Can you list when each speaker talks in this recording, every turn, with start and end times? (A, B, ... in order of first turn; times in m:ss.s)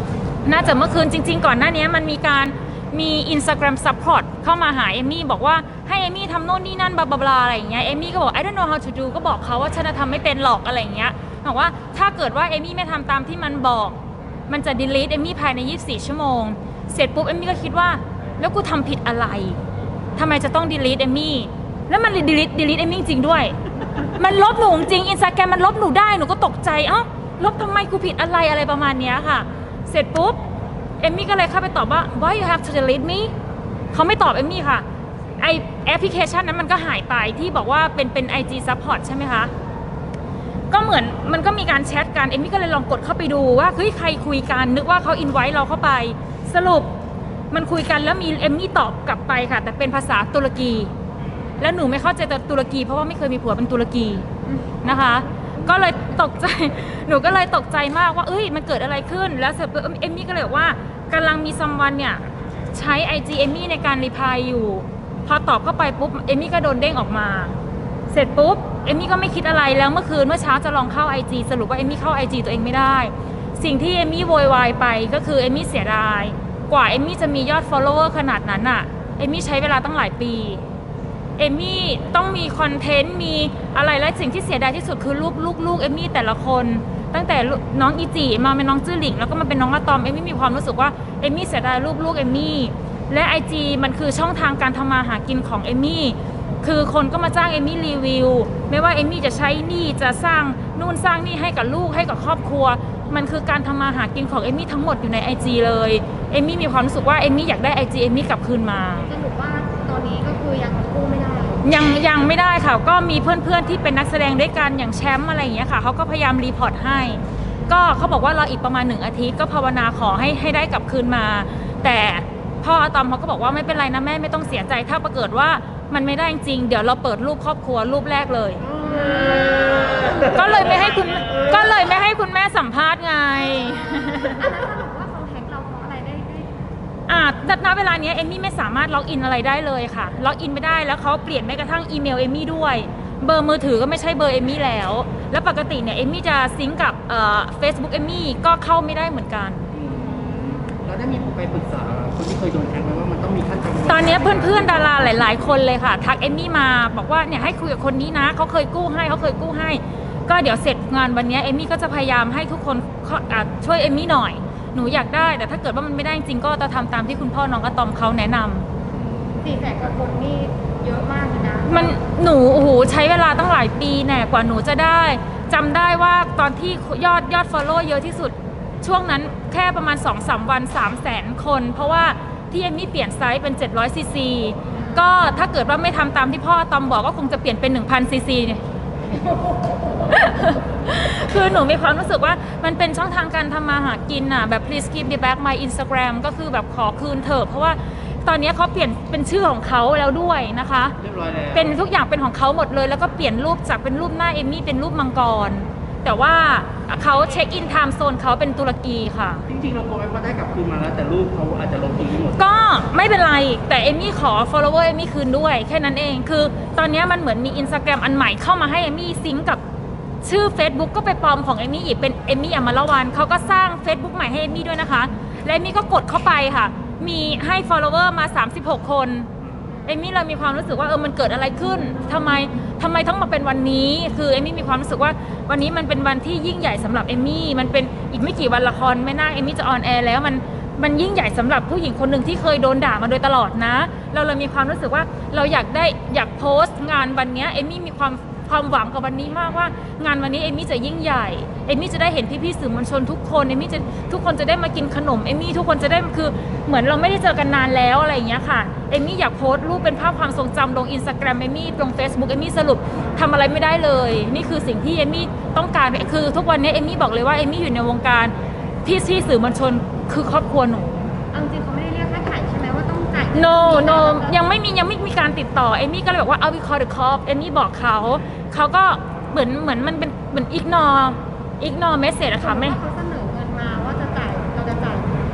0:00.4-0:14.0 A
0:14.5-0:19.6 A
0:20.2-0:30.4 A
0:31.0-0:33.3 A
0:33.9-0:34.8 A
0:35.4-0:39.5 A
0:40.7-0:46.9 A
0:47.5-0:50.9 A
0:51.6-0:54.2 A
0:54.4-0:54.8 B
0:54.8-1:07.5 A
0:54.9-0:55.8 C
1:08.1-1:20.6 A
1:21.4-1:49.1 A
1:49.1-1:51.6 B
1:51.6-2:08.6 A
2:08.6-2:11.6 C
2:08.8-2:11.2 B
2:10.0-2:14.4 A
2:13.3-2:16.5 B
2:17.1-2:29.7 A
2:29.7-2:35.6 C
2:33.8-2:48.6 A
2:48.9-2:49.8 C
2:49.4-2:52.0 B
2:51.6-3:08.6 A
3:04.7-3:05.0 B
3:09.1-3:21.0 A
3:21.0-3:21.7 C
3:21.5-3:29.5 A
3:29.5-3:32.5 C
3:32.4-3:39.6 A
3:40.2-3:49.3 A
3:49.8-4:31.1 A
4:31.3-4:34.4 B
4:33.3-4:42.8 A
4:42.4-4:45.2 B